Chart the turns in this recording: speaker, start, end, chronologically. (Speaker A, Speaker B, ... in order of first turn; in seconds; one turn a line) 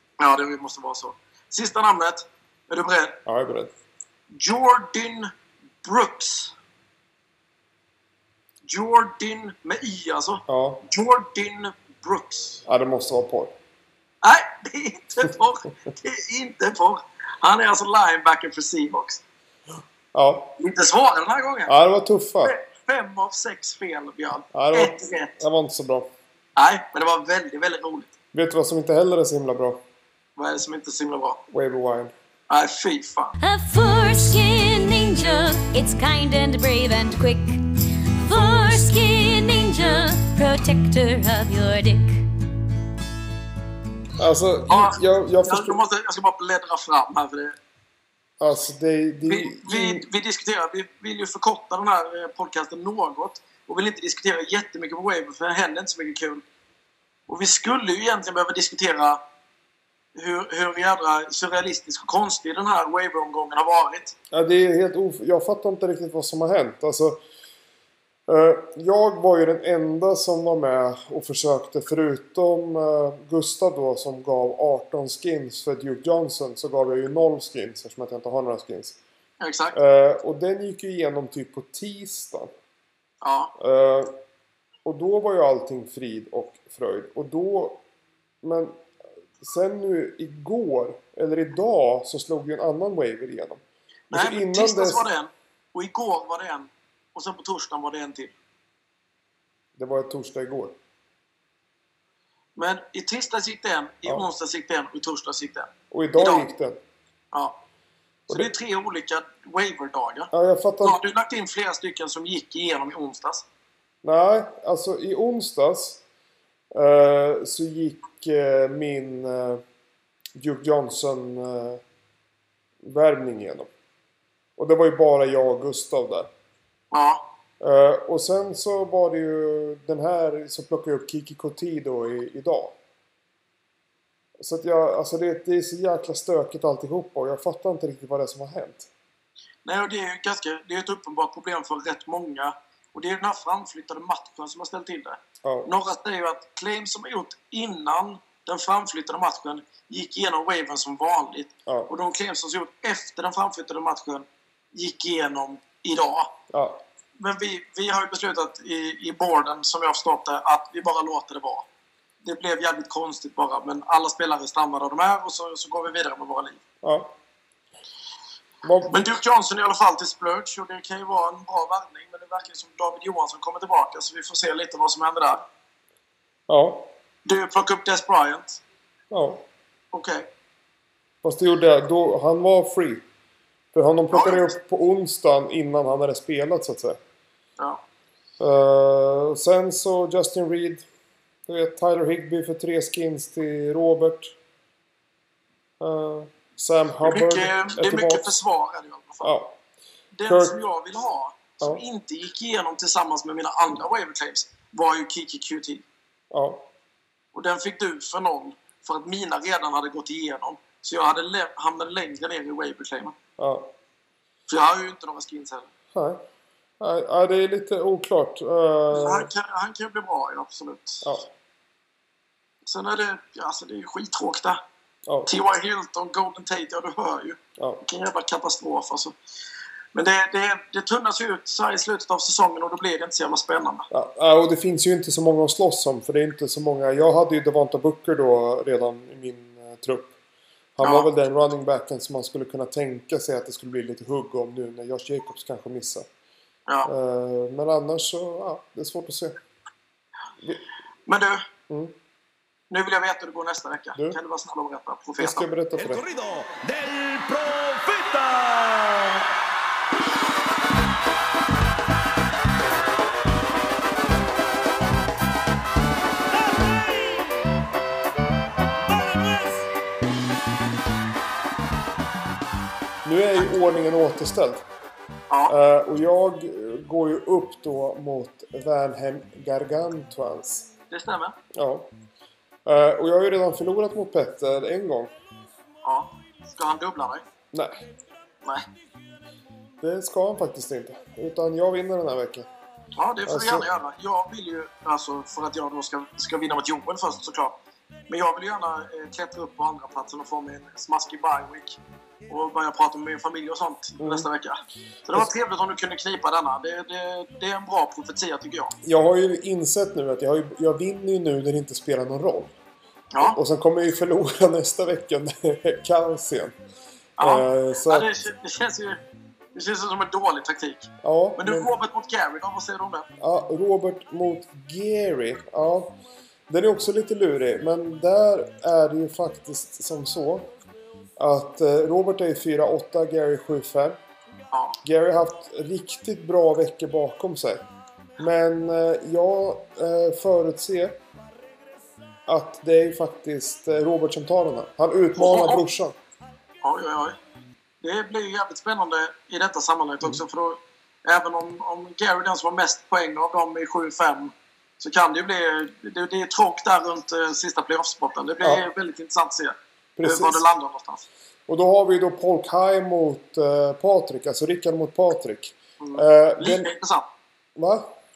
Speaker A: 0.2-3.2
Speaker B: 3.2-3.7
Speaker A: 4.3-5.3
Speaker A: 5.8-6.5
Speaker A: 8.6-12.6
Speaker B: 10.5-10.8
Speaker B: 12.7-13.5
Speaker A: 14.2-19.2
Speaker B: 20.1-20.5
Speaker A: 20.6-21.7
Speaker B: 21.7-22.6
Speaker A: 22.4-25.3
Speaker B: 24.5-26.1
Speaker A: 26.6-28.1
Speaker B: 28.3-29.8
Speaker A: 30.4-31.4
Speaker B: 31.5-32.1
Speaker A: 32.5-33.3
Speaker C: 33.4-37.6
Speaker C: 38.2-42.2
Speaker B: 44.2-45.8
Speaker A: 44.7-47.6
Speaker B: 48.4-50.0
Speaker A: 49.2-56.4
Speaker A: 57.3-59.2
Speaker A: 60.1-64.1
Speaker B: 64.3-67.2
Speaker B: 68.3-79.0
Speaker A: 79.4-79.8
Speaker B: 79.7-82.5
Speaker A: 83.2-83.5
Speaker B: 83.6-84.1
Speaker B: 84.8-87.8
Speaker B: 88.4-88.8
Speaker B: 89.4-95.1
Speaker A: 94.1-98.3
Speaker B: 99.8-100.8
Speaker A: 102.5-106.5
Speaker B: 105.9-106.8
Speaker A: 107.3-107.6
Speaker A: 108.3-110.3
Speaker B: 110.3-111.0
Speaker A: 110.8-113.4
Speaker B: 114.0-116.0
Speaker B: 116.7-119.6
Speaker B: 120.3-121.8
Speaker B: 122.8-123.7
Speaker B: 124.6-126.3
Speaker A: 126.9-127.3
Speaker B: 127.6-132.8
Speaker B: 134.4-138.9
Speaker A: 139.6-156.3
Speaker B: 145.4-145.7
Speaker B: 156.5-156.8
Speaker A: 157.2-161.7
Speaker A: 162.2-166.6
Speaker B: 166.8-167.1
Speaker B: 168.6-169.2
Speaker A: 168.9-175.4
Speaker B: 176.5-176.9
Speaker A: 177.2-178.6
Speaker B: 179.1-179.4
Speaker A: 179.9-180.3
Speaker B: 181.2-183.0
Speaker B: 183.7-187.0
Speaker A: 184.1-184.5
Speaker B: 188.4-190.8
Speaker B: 191.5-194.3
Speaker B: 195.8-198.4
Speaker A: 197.0-199.3
Speaker B: 199.2-199.6
Speaker A: 200.1-205.8
Speaker B: 200.3-200.6
Speaker B: 206.3-206.7
Speaker A: 207.3-213.1
Speaker B: 213.4-213.7
Speaker A: 214.5-215.7
Speaker B: 215.9-216.2
Speaker B: 216.8-219.3
Speaker A: 218.9-221.1
Speaker B: 221.0-221.3
Speaker A: 222.6-224.6
Speaker B: 225.1-225.4
Speaker A: 225.3-229.1
Speaker A: 229.9-233.9
Speaker B: 233.9-240.1
Speaker B: 240.8-246.1
Speaker A: 240.8-241.1
Speaker B: 246.8-249.4
Speaker A: 251.1-251.4
Speaker A: 252.7-255.5
Speaker B: 255.2-256.1
Speaker D: 255.8-259.3
Speaker D: 266.4-267.4
Speaker D: 268.9-269.6
Speaker B: 273.0-274.6
Speaker A: 275.3-275.5
Speaker B: 275.5-280.7
Speaker A: 280.9-281.4
Speaker B: 281.5-281.9
Speaker B: 282.6-285.1
Speaker A: 285.8-287.2
Speaker B: 287.5-287.8
Speaker B: 289.8-292.5
Speaker A: 293.0-297.6
Speaker B: 293.2-293.7
Speaker A: 298.1-308.7
Speaker B: 304.0-304.3
Speaker B: 308.8-312.5
Speaker A: 313.1-313.4
Speaker B: 313.2-316.6
Speaker A: 317.2-319.0
Speaker B: 317.2-318.1
Speaker A: 319.5-323.1
Speaker B: 321.0-321.7
Speaker B: 323.2-326.0
Speaker B: 326.5-330.5
Speaker B: 331.2-334.0
Speaker A: 334.5-334.8
Speaker B: 334.8-337.6
Speaker B: 338.2-341.0
Speaker B: 342.2-345.9
Speaker A: 345.1-345.6
Speaker A: 346.6-347.1
Speaker A: 347.8-361.0
Speaker B: 360.0-360.4
Speaker B: 361.5-366.7
Speaker A: 365.8-367.1
Speaker B: 367.6-367.9